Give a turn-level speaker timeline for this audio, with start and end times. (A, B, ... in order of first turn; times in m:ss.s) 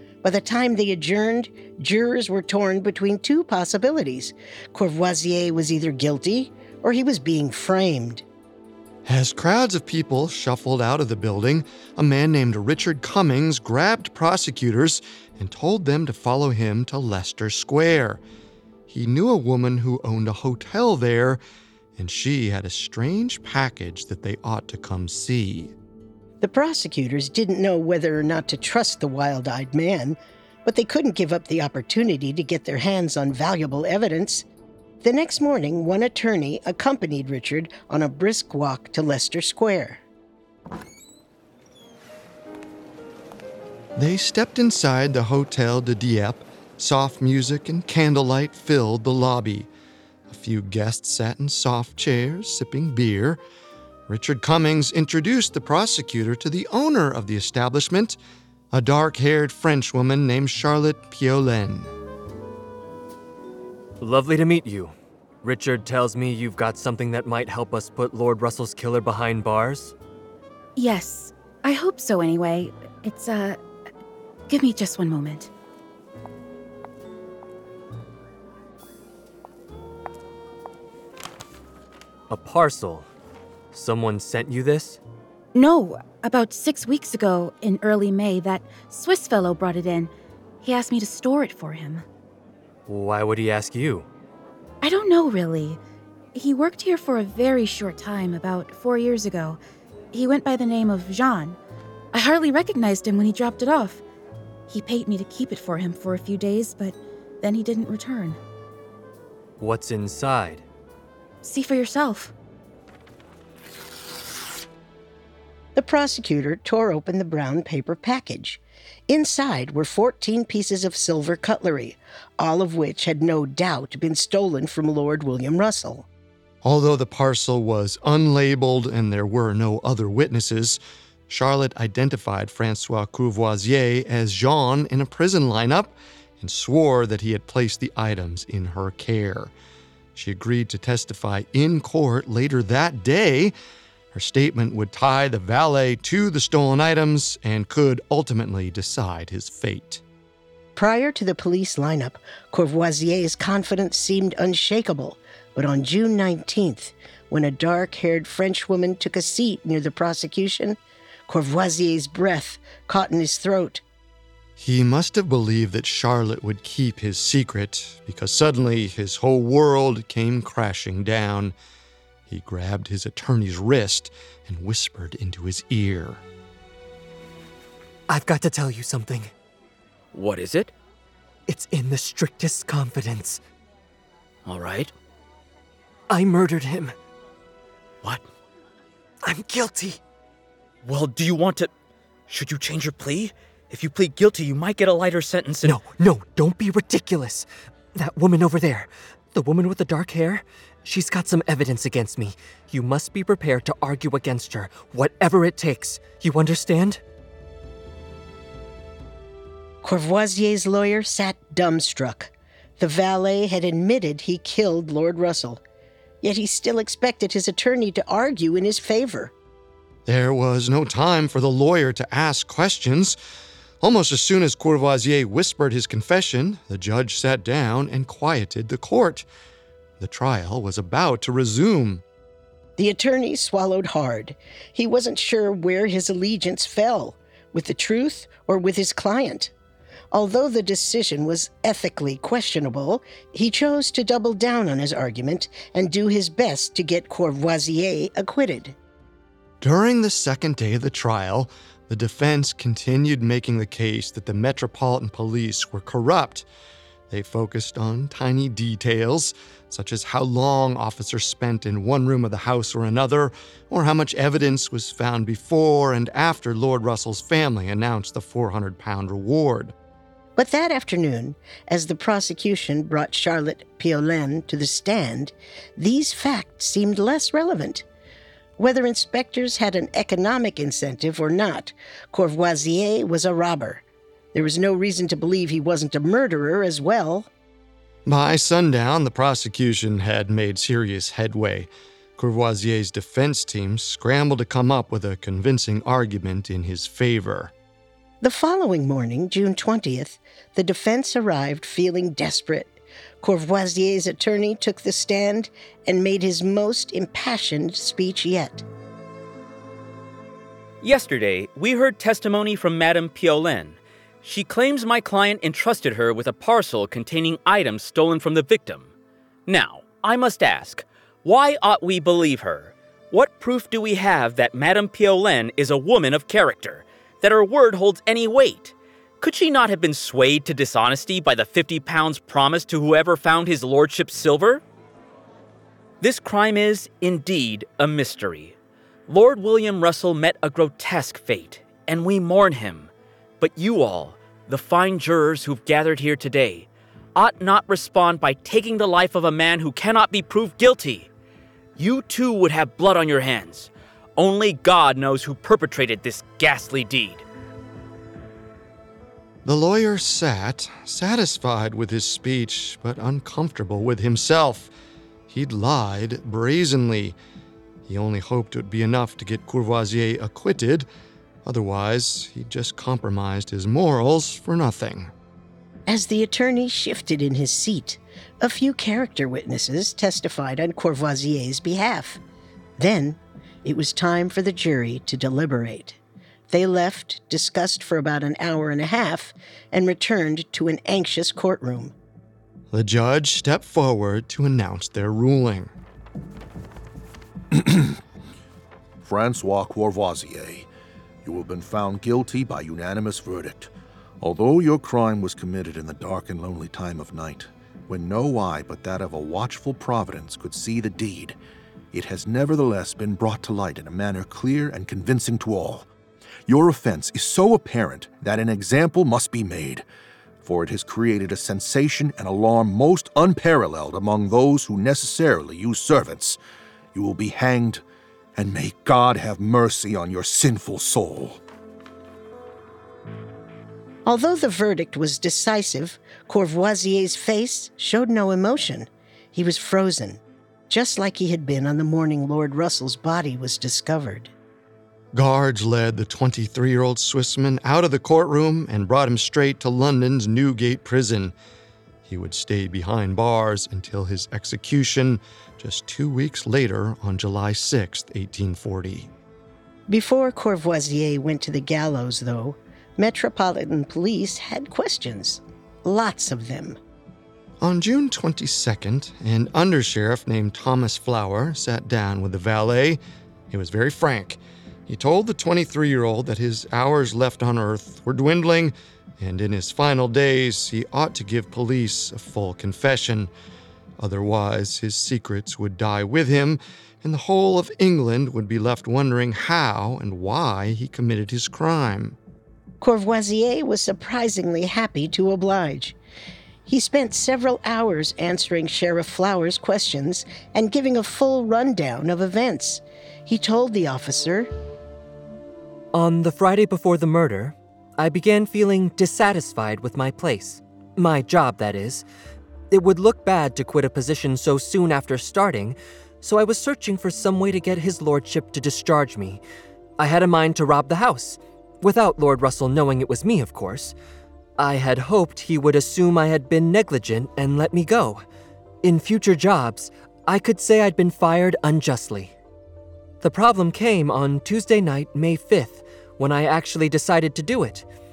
0:00.2-0:08.2 A
0:09.0-0:18.2 B
0:18.9-0:21.4 B
0:22.0-0:25.7 B
0:26.4-0:34.4 A
0:35.0-0:40.0 A
0:44.0-0:49.7 B
0:50.3-0:53.4 B
0:54.1-0:58.2 B
0:58.7-1:01.9 B
1:04.0-1:09.9 C
1:10.8-1:13.6 D
1:14.5-1:15.5 D
1:22.3-1:23.1 C
1:23.7-1:25.0 C
1:25.5-1:32.0 D
1:32.9-1:34.1 C
1:34.8-1:35.8 D
1:36.3-1:39.6 D
1:40.1-1:41.6 D
1:42.1-1:44.0 D
1:44.7-1:48.4 D
1:49.6-1:50.6 C
1:51.4-1:52.3 D
1:55.7-2:06.0 A
2:06.6-2:19.5 B
2:20.1-2:23.5 B
2:24.1-2:30.0 B
2:30.7-2:43.8 A
2:44.6-2:51.5 B
2:52.2-2:56.2 B
2:58.1-2:59.3 C
3:00.1-3:00.7 E
3:01.5-3:03.4 C
3:04.4-3:04.9 E
3:06.1-3:06.9 C
3:09.2-3:10.0 C
3:10.8-3:11.7 E
3:12.3-3:15.8 E
3:15.6-3:27.0 C
3:29.8-3:35.6 A
3:36.2-3:39.3 A
3:40.0-3:43.2 B
3:43.8-3:49.3 B
3:50.0-3:52.0 B
3:52.8-3:59.5 A
4:00.1-4:08.8 A
4:09.6-4:16.4 B
4:17.1-4:29.7 B
4:30.4-4:37.8 A
4:38.6-4:43.8 A
4:44.3-4:47.3 A
4:48.0-4:57.5 B
4:58.2-5:08.6 A
5:10.8-5:18.9 E
5:19.5-5:34.6 E
5:36.0-5:38.5 E
5:39.1-5:42.9 E
5:43.4-5:51.1 E
5:51.8-5:57.2 E
5:59.4-6:04.7 B
6:05.3-6:07.2 B
6:07.8-6:10.9 B
6:11.4-6:15.1 B
6:15.9-6:22.2 A
6:22.8-6:26.0 A
6:26.5-6:31.9 A
6:32.7-6:35.7 B
6:37.5-6:38.0 F
6:39.0-6:40.7 F
6:41.2-6:43.7 F
6:44.2-6:51.4 F
6:51.9-6:55.9 F
6:56.5-6:59.8 F
7:00.4-7:06.4 F
7:06.9-7:07.8 F
7:08.4-7:11.4 F
7:14.0-7:24.3 A
7:25.1-7:31.3 B
7:32.0-7:39.1 B
7:39.9-7:46.8 A
7:47.6-7:53.0 B
7:53.5-8:03.3 B
8:04.0-8:12.2 B
8:12.8-8:16.0 A
8:16.7-8:24.5 A
8:25.9-8:32.0 C
8:32.7-8:39.4 C
8:40.0-8:43.9 C
8:44.6-8:48.2 C
8:48.8-8:52.3 C
8:53.2-8:57.9 C